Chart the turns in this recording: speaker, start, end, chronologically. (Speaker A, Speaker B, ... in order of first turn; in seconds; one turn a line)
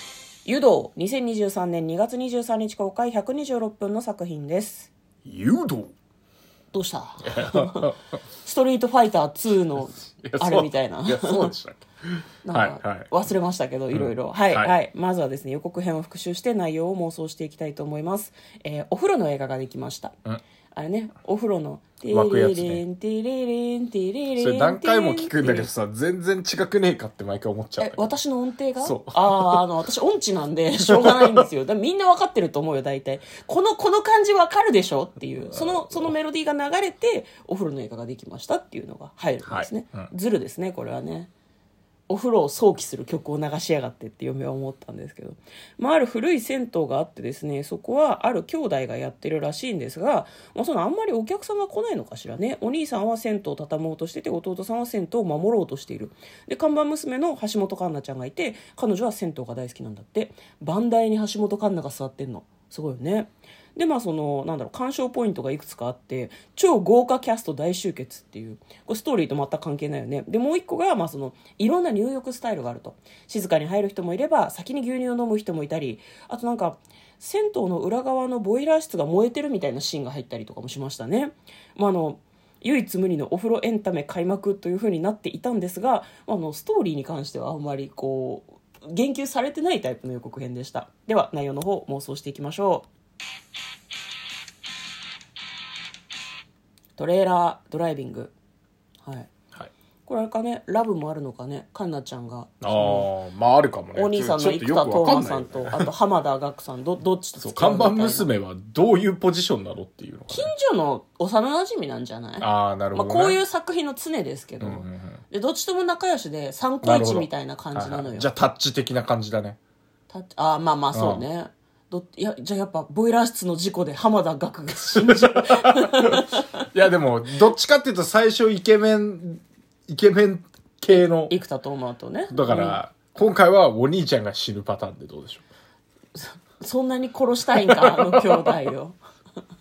Speaker A: 0.5-4.9
Speaker B: 5.2-5.9
Speaker A: 6.7-7.9
Speaker B: 7.2-8.0
Speaker A: 8.4-11.5
Speaker B: 10.0-13.1
Speaker A: 12.4-20.1
Speaker B: 13.9-14.7
Speaker A: 20.7-25.7
Speaker B: 22.1-22.8
Speaker B: 24.4-28.1
Speaker A: 27.8-41.3
Speaker B: 28.8-29.7
Speaker B: 30.9-31.4
Speaker B: 35.5-36.1
Speaker B: 39.4-40.1
Speaker A: 42.1-92.9
Speaker A: 97.0-98.3
Speaker A: 99.0-99.3
Speaker A: 100.0-103.1
Speaker B: 102.6-105.9
Speaker A: 103.9-108.3
Speaker B: 107.4-110.5
Speaker A: 110.3-118.3
Speaker B: 112.4-113.4
Speaker B: 114.6-115.2
Speaker B: 116.8-119.6
Speaker A: 120.1-126.5
Speaker B: 120.9-121.2
Speaker B: 125.0-131.3
Speaker A: 131.3-132.8
Speaker B: 132.3-135.4
Speaker A: 136.1-139.0
Speaker B: 137.7-138.5